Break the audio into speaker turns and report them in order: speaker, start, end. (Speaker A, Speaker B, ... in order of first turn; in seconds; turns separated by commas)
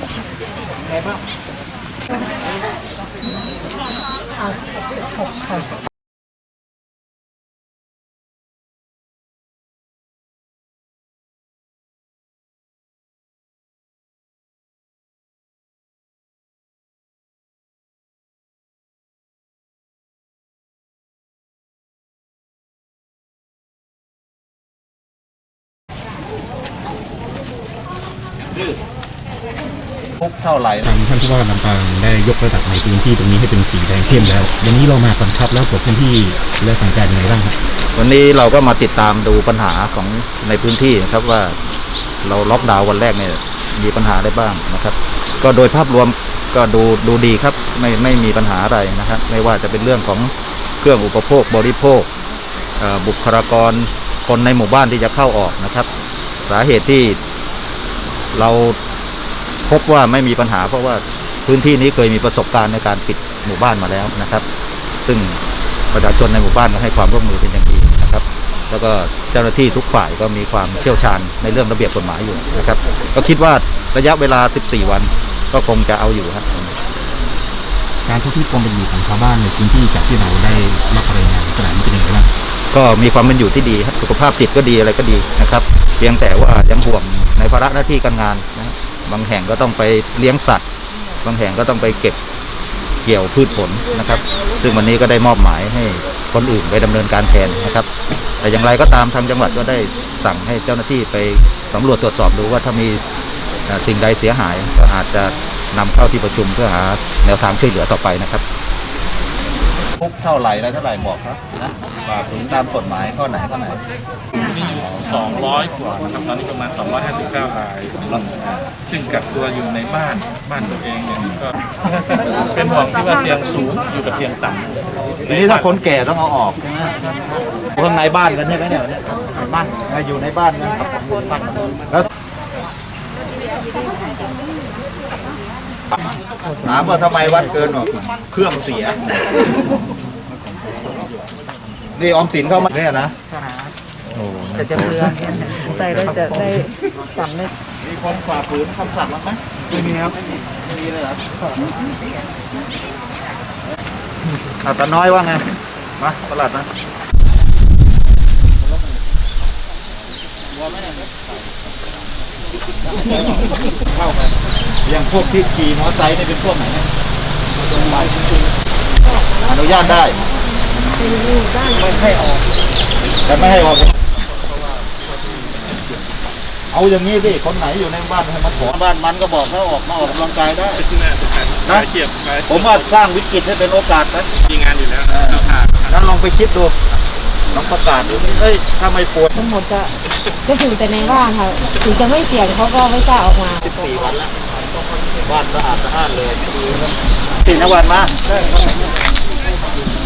Speaker A: 0.8-1.2, Speaker B: 4.4-5.7, Speaker A: 30.2-30.9, Speaker C: 30.9-37.5, Speaker A: 38.0-41.6, Speaker A: 42.2-52.1, Speaker A: 52.8-55.9, Speaker A: 56.5-57.2, Speaker A: 58.3-58.8, Speaker A: 59.7-64.4, Speaker A: 65.1-65.4, Speaker A: 65.9-76.7, Speaker C: 78.1-82.3, Speaker A: 82.7-90.6, Speaker A: 91.2-92.2, Speaker A: 93.0-97.9, Speaker A: 98.4-103.0, Speaker A: 103.7-108.4, Speaker A: 110.0-113.8, Speaker D: 114.4-118.2, Speaker A: 118.1-118.7, Speaker D: 118.8-125.7, Speaker A: 125.3-127.0, Speaker A: 127.7-132.1, Speaker A: 136.6-139.0, Speaker A: 141.9-143.2, Speaker B: 143.3-143.7, Speaker A: 144.1-146.4, Speaker B: 144.7-147.5, Speaker A: 147.8-150.2, Speaker A: 150.7-151.2, Speaker A: 154.6-155.4, Speaker A: 156.0-156.7, Speaker A: 160.5-161.4, Speaker A: 162.9-164.3, Speaker A: 164.9-166.9, Speaker A: 167.8-168.1, Speaker B: 169.0-172.4, Speaker A: 169.4-170.2, Speaker A: 173.2-173.9, Speaker D: 174.2-175.8, Speaker A: 176.7-180.8, Speaker D: 180.8-182.9, Speaker A: 182.5-184.3, Speaker D: 184.4-185.9, Speaker A: 185.1-186.8, Speaker A: 187.5-189.3, Speaker B: 189.3-189.9, Speaker B: 190.4-193.7, Speaker A: 193.6-194.3, Speaker A: 195.2-196.9, Speaker A: 197.4-198.1